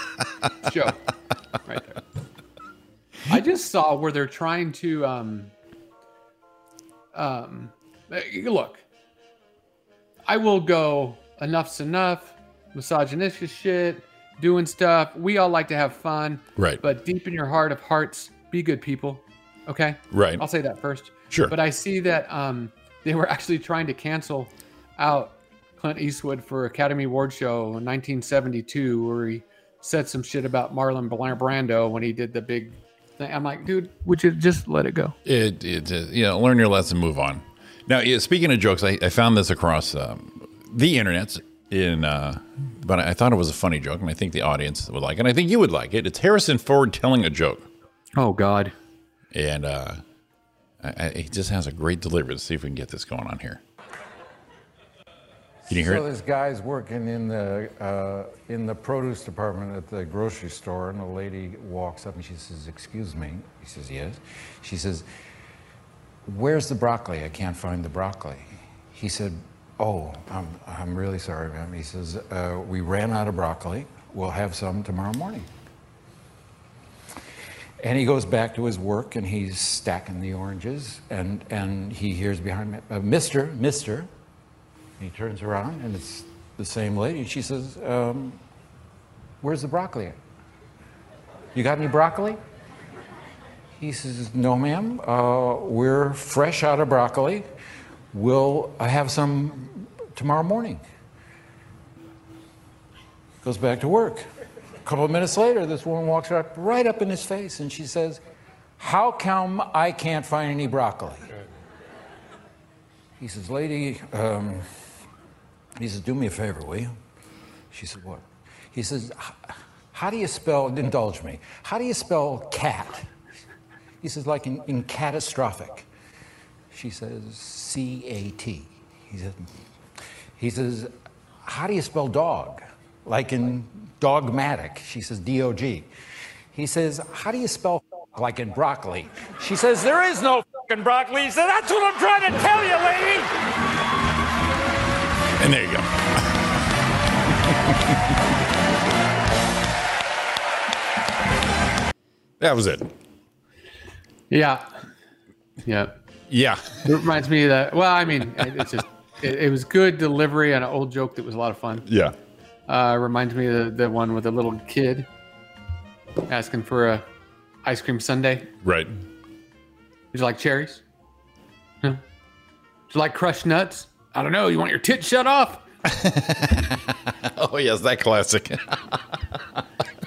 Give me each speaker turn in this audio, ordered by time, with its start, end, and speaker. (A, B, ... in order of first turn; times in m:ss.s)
0:00.2-0:00.5 A
0:00.6-0:01.0 B
0:01.6-0:02.0 B
0:03.3-0:05.5 B
0:07.1-0:08.8 B
0:10.3-0:35.2 B
0:20.1-0:20.4 A
0:35.2-0:47.7 A
0:48.2-0:48.7 B
0:49.3-0:50.0 A
0:50.8-0:53.6 A
0:55.7-1:05.0 C
0:55.7-0:56.0 A
1:06.2-1:15.5 C
1:17.8-1:24.1 C
1:25.0-1:28.4 C
1:29.4-1:30.2 C
1:31.5-1:32.4 C
1:33.8-1:37.5 C
1:38.1-1:40.8 C
1:43.4-1:44.2 C
1:44.8-1:48.2 C
1:48.8-1:51.3 C
1:53.2-1:54.6 C
1:55.8-1:56.9 C
1:57.7-2:03.1 C
2:04.0-2:05.9 C
2:06.7-2:09.5 C
2:10.4-2:10.9 C
2:11.4-2:15.9 C
2:16.5-2:23.3 C
2:25.4-2:26.4 A
2:27.5-2:28.0 A
2:32.4-2:32.9 A
2:34.3-2:34.6 B
2:35.6-2:35.9 B
2:36.3-2:36.8 A
2:36.8-2:41.9 B
2:41.9-2:42.1 A
2:42.7-2:45.1 B
2:46.3-2:47.0 B
2:47.6-2:48.5 B
2:48.6-2:48.9 A
2:50.1-2:50.8 B
2:52.9-2:55.6 B
2:55.8-2:59.4 A